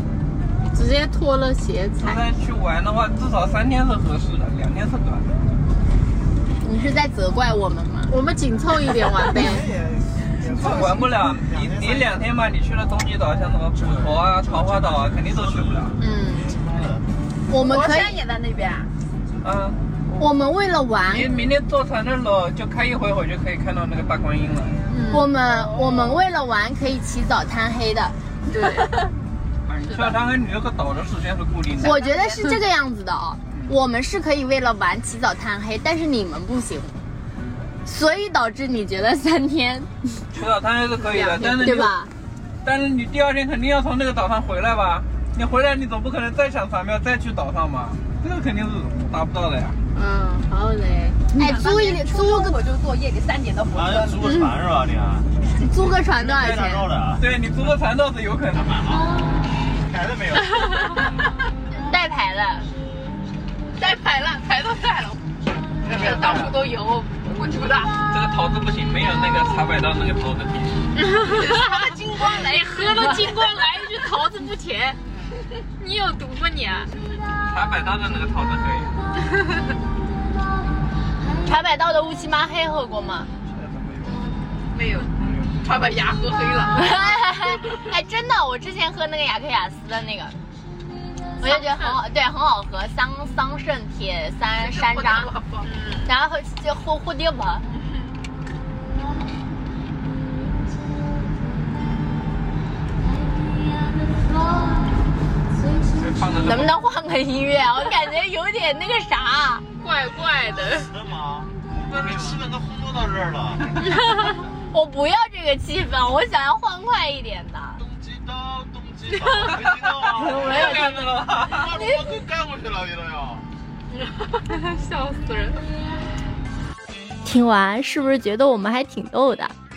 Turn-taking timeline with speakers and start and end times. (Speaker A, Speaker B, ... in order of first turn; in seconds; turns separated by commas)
Speaker A: 0.7-2.2, Speaker B: 2.0-5.3, Speaker C: 6.6-8.1, Speaker A: 8.1-9.7, Speaker B: 10.5-15.9, Speaker C: 16.0-16.4, Speaker D: 16.5-17.0, Speaker C: 17.5-18.2, Speaker E: 17.5-18.9, Speaker B: 19.4-19.8, Speaker C: 20.1-21.3, Speaker B: 21.1-24.8, Speaker C: 25.1-28.1, Speaker E: 28.5-29.1, Speaker B: 29.6-32.0, Speaker C: 31.8-37.0, Speaker E: 31.9-32.5, Speaker C: 37.8-40.2, Speaker B: 40.3-41.9, Speaker C: 41.2-42.1, Speaker B: 42.6-49.8, Speaker A: 49.9-50.5, Speaker C: 50.5-52.5, Speaker E: 51.5-54.3, Speaker D: 53.7-55.3, Speaker C: 55.5-56.9, Speaker D: 56.2-57.2, Speaker B: 56.4-58.8, Speaker D: 58.5-59.1, Speaker D: 59.8-61.0, Speaker C: 61.7-62.7, Speaker E: 63.7-65.2, Speaker D: 65.8-66.5, Speaker B: 65.9-66.5, Speaker E: 66.0-68.0, Speaker B: 68.1-70.8, Speaker A: 71.0-71.3, Speaker E: 71.3-73.4, Speaker A: 72.6-75.0, Speaker A: 75.8-76.9, Speaker B: 77.5-79.0, Speaker C: 81.4-83.3, Speaker E: 84.7-86.9, Speaker C: 86.7-90.4, Speaker C: 91.4-95.3, Speaker E: 91.4-92.0, Speaker E: 94.5-96.1, Speaker C: 96.0-97.6, Speaker E: 97.7-98.1, Speaker B: 106.0-106.7, Speaker C: 106.4-109.6, Speaker A: 109.8-110.9, Speaker D: 110.7-113.7, Speaker C: 114.7-117.8, Speaker D: 117.8-123.5, Speaker B: 119.4-121.8, Speaker C: 120.4-120.9, Speaker A: 124.5-125.6, Speaker F: 127.2-129.5